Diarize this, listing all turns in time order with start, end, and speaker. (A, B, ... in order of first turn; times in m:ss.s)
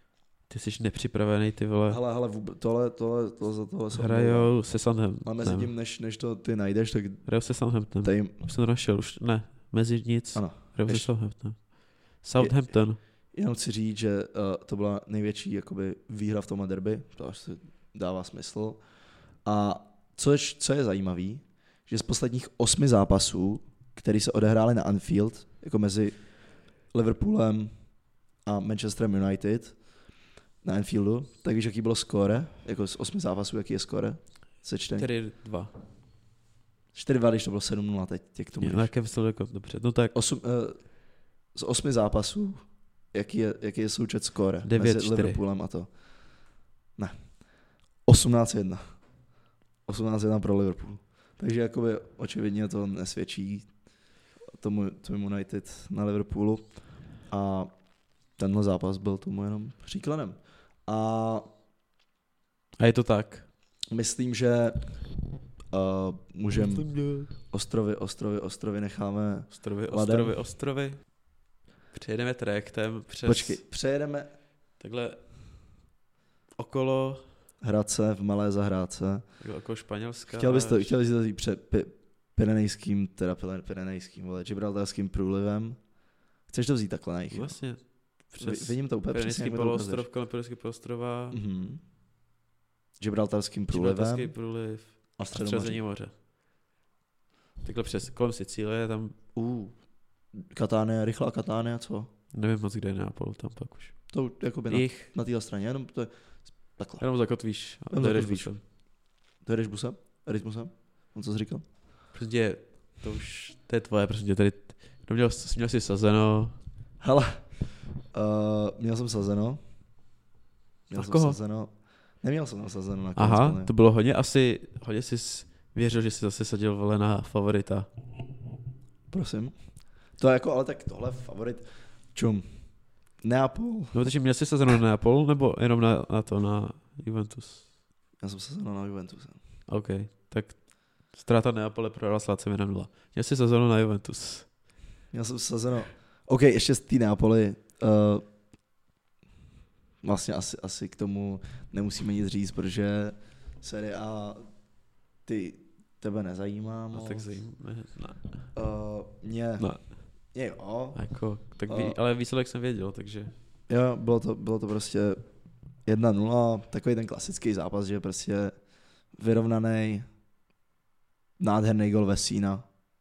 0:00.5-0:02.0 A
0:01.9-0:04.5 B
0:03.9-0:05.7 A
0:05.2-0:07.3 B
0:07.2-0:13.0 A
0:08.0-0:08.3 B
0:10.3-0:11.1 B
0:12.4-0:18.8 B
0:19.4-0:27.7 B
0:28.4-0:30.0 B
0:30.6-0:35.1 B
0:35.0-0:35.7 A
0:36.9-0:38.9 B
0:38.6-0:40.1 A
0:40.1-0:45.9 B
0:44.6-0:45.4 A
0:47.0-0:47.5 B
0:48.0-0:49.1 B
0:49.8-0:53.7 B
0:54.5-0:57.7 B
0:58.3-1:01.5 B
1:02.8-1:03.5 A
1:03.9-1:05.0 B
1:05.7-1:10.4 B
1:06.5-1:07.3 A
1:09.5-1:11.1 A
1:11.9-1:13.6 A
1:13.2-1:14.3 B
1:14.8-1:15.3 A
1:16.6-1:17.2 A
1:17.6-1:19.2 B
1:19.4-1:20.9 A
1:20.3-1:25.8 B
1:26.5-1:27.6 B
1:27.3-1:31.4 A
1:28.2-1:30.0 B
1:31.3-1:31.8 B
1:33.0-1:34.3 B
1:33.7-1:36.1 A
1:35.2-1:35.8 B
1:37.6-1:39.2 A
1:39.3-1:42.1 B
1:42.3-1:44.1 A
1:44.1-1:47.1 B
1:44.7-1:45.1 A
1:47.0-1:48.6 A
1:47.9-1:48.8 B
1:49.4-1:51.6 B
1:52.1-1:56.6 A
1:57.0-1:59.6 B
2:00.9-2:03.7 B
2:00.9-2:01.4 A
2:03.2-2:07.9 A
2:09.1-2:09.6 B
2:10.1-2:14.0 B
2:13.9-2:17.7 A
2:18.2-2:19.4 B
2:19.7-2:24.5 A
2:25.1-2:28.2 B
2:30.0-2:34.5 B
2:35.2-2:37.3 B
2:36.9-2:38.5 A
2:38.5-2:41.0 B
2:39.6-2:40.0 A
2:40.9-2:43.3 A
2:41.6-2:42.0 B
2:43.7-2:45.2 B
2:45.8-2:48.5 B
2:49.1-2:50.1 B
2:51.4-2:52.6 B